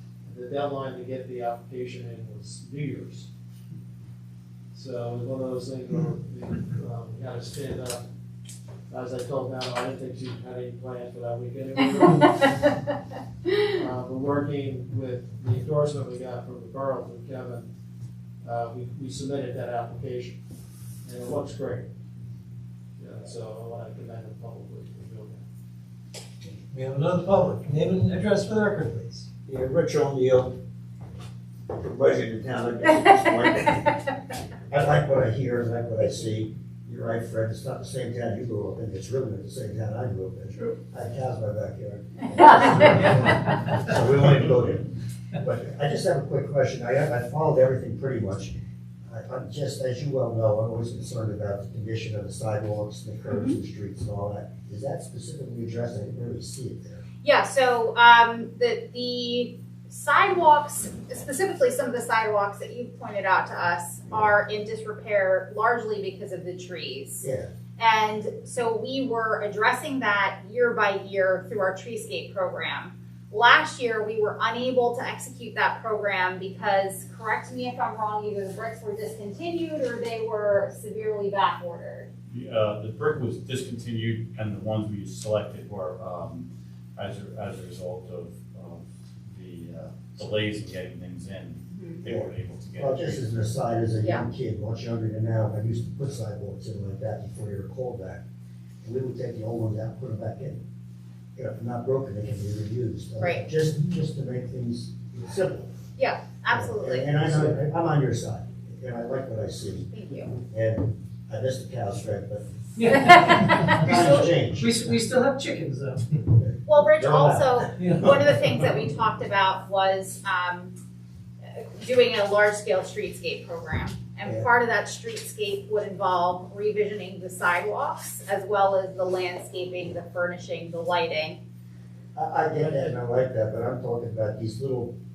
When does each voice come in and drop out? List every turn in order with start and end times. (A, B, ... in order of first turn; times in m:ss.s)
0:00.2-0:03.3 A
0:04.7-0:08.0 A
0:08.9-0:12.3 A
0:12.0-0:12.4 B
0:13.7-0:17.7 A
0:18.4-0:20.4 A
0:21.0-0:21.9 A
0:23.0-0:25.4 A
0:26.7-0:29.3 C
0:29.5-0:30.5 D
0:31.7-0:33.9 D
0:34.7-0:48.5 D
0:49.1-0:57.0 D
0:57.2-1:07.3 B
1:07.2-1:07.5 D
1:07.8-1:22.1 B
1:22.3-1:33.2 E
1:31.7-1:32.0 B
1:32.1-1:38.2 D
1:38.8-1:40.6 D
1:41.4-1:45.7 D
1:43.2-1:43.5 B
1:46.0-1:47.1 B
1:46.5-1:49.9 D
1:49.9-1:50.4 B
1:50.4-1:52.4 D
1:52.8-1:56.2 C
1:53.1-1:54.3 B
1:53.7-1:54.9 D
1:56.4-1:58.2 D
1:56.7-2:00.8 B
1:57.8-1:58.2 C
2:01.4-2:11.4 B
2:12.2-2:14.9 D
2:12.5-2:13.0 A